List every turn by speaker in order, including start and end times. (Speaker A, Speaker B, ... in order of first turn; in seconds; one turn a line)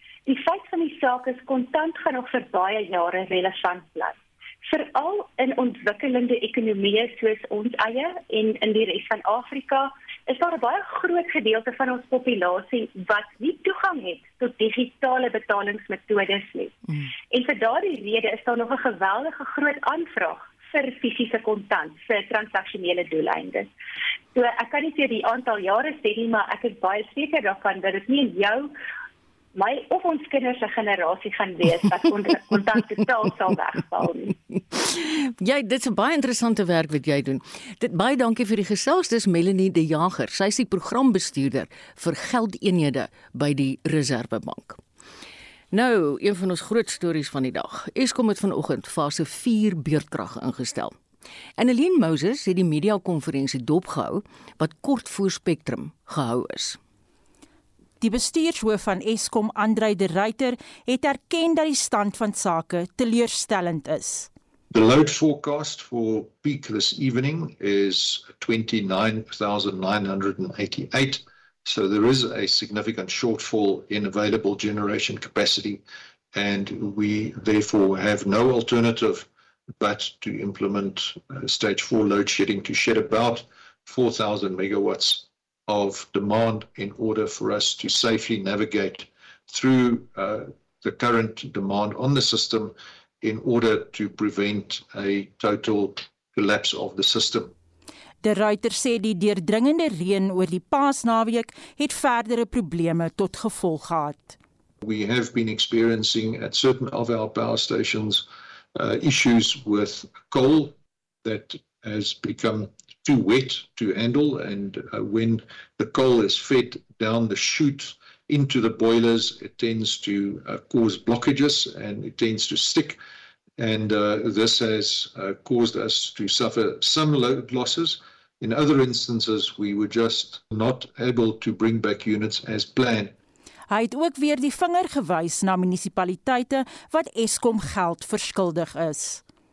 Speaker A: 0.3-23.7
Speaker A: 24.4-28.7
Speaker A: 29.6-34.4
Speaker B: 34.7-44.8
Speaker B: 45.7-51.0
Speaker B: 51.6-56.8
Speaker C: 58.0-64.3
Speaker D: 64.7-75.8
Speaker D: 76.3-79.3
Speaker D: 79.8-97.5
Speaker C: 98.2-104.4
Speaker D: 104.8-123.0
Speaker D: 123.6-133.1
Speaker C: 133.7-139.2